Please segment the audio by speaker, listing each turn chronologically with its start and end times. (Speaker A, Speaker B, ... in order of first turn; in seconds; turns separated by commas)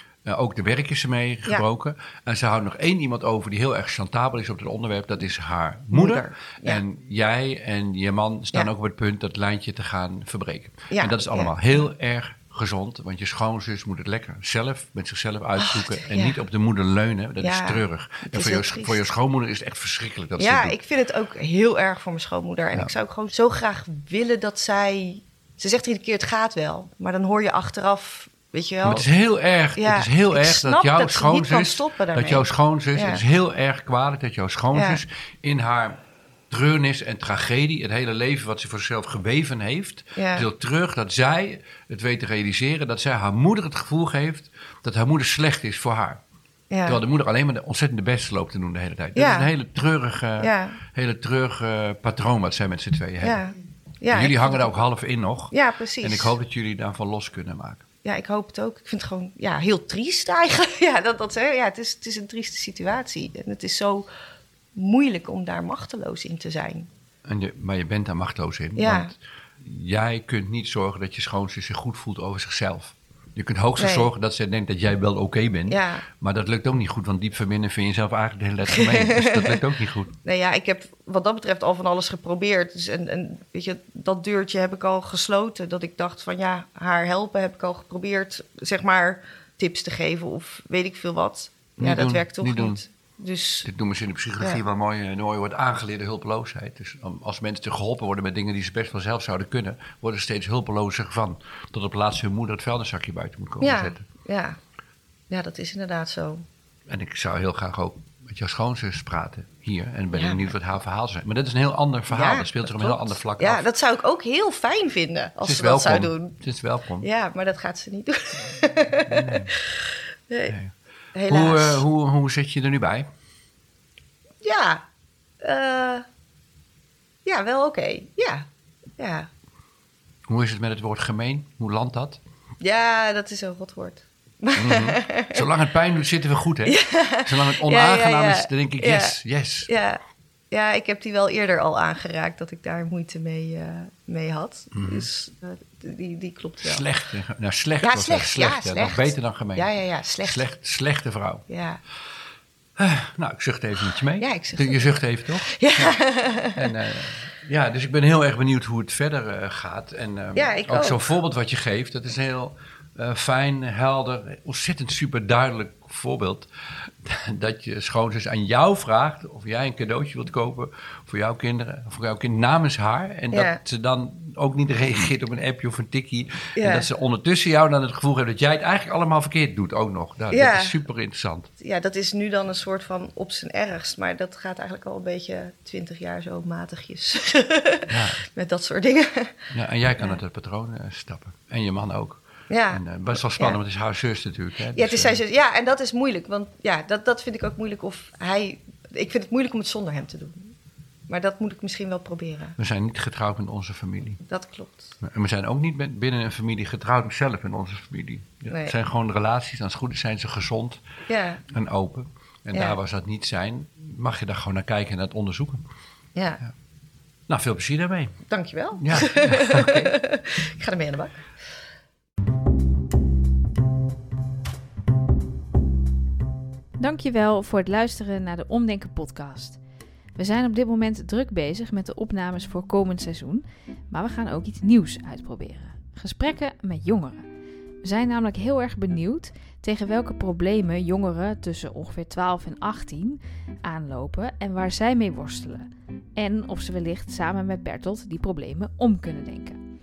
Speaker A: 0.2-20.8, Speaker B: 5.9-6.8, Speaker B: 10.9-11.6, Speaker B: 15.7-16.4, Speaker B: 17.4-19.0, Speaker B: 20.4-29.1, Speaker A: 28.8-36.0, Speaker B: 29.8-33.2, Speaker B: 34.7-35.0, Speaker A: 36.5-46.2, Speaker B: 40.2-40.5, Speaker B: 46.7-47.0, Speaker A: 46.9-53.4, Speaker B: 49.1-49.5, Speaker B: 50.4-50.8, Speaker B: 53.2-54.8, Speaker A: 54.1-57.8, Speaker B: 55.5-56.3, Speaker B: 58.0-64.1, Speaker B: 64.7-66.9, Speaker A: 67.2-80.1, Speaker B: 68.8-69.1, Speaker B: 73.8-74.1, Speaker B: 75.7-76.0, Speaker B: 78.7-79.6, Speaker B: 80.2-93.7, Speaker A: 91.8-92.8, Speaker A: 93.7-104.0, Speaker B: 103.6-104.6, Speaker B: 105.3-106.4, Speaker A: 106.9-113.7, Speaker B: 110.1-110.5, Speaker B: 112.1-116.3, Speaker A: 115.4-117.1, Speaker B: 117.0-119.6, Speaker A: 119.0-119.5, Speaker B: 120.3-120.5, Speaker B: 121.1-121.8, Speaker A: 121.3-123.1, Speaker B: 124.4-124.8, Speaker B: 125.4-126.0, Speaker B: 127.2-128.5, Speaker B: 129.0-129.3, Speaker A: 130.3-132.2, Speaker B: 132.6-135.4, Speaker A: 134.6-139.7, Speaker B: 136.7-146.8, Speaker A: 144.7-145.1, Speaker A: 146.6-149.7, Speaker B: 147.8-150.4, Speaker A: 150.2-151.4, Speaker B: 151.5-151.8, Speaker A: 152.8-156.0, Speaker B: 154.2-156.7, Speaker A: 156.6-181.5, Speaker B: 160.3-161.0, Speaker B: 173.3-173.6, Speaker B: 176.6-176.9, Speaker B: 180.3-180.8, Speaker B: 181.6-189.4, Speaker A: 187.9-188.2, Speaker A: 189.5-195.2, Speaker B: 192.5-192.8, Speaker B: 194.7-200.5, Speaker B: 201.1-202.6, Speaker A: 202.6-204.2, Speaker B: 204.3-204.9, Speaker A: 205.0-210.8, Speaker B: 208.5-208.7, Speaker B: 211.1-211.4, Speaker A: 211.5-215.6, Speaker B: 216.2-216.4, Speaker A: 217.3-218.2, Speaker B: 218.3-221.2, Speaker A: 218.8-219.9, Speaker C: 226.8-229.6, Speaker C: 230.2-237.2, Speaker C: 237.8-249.6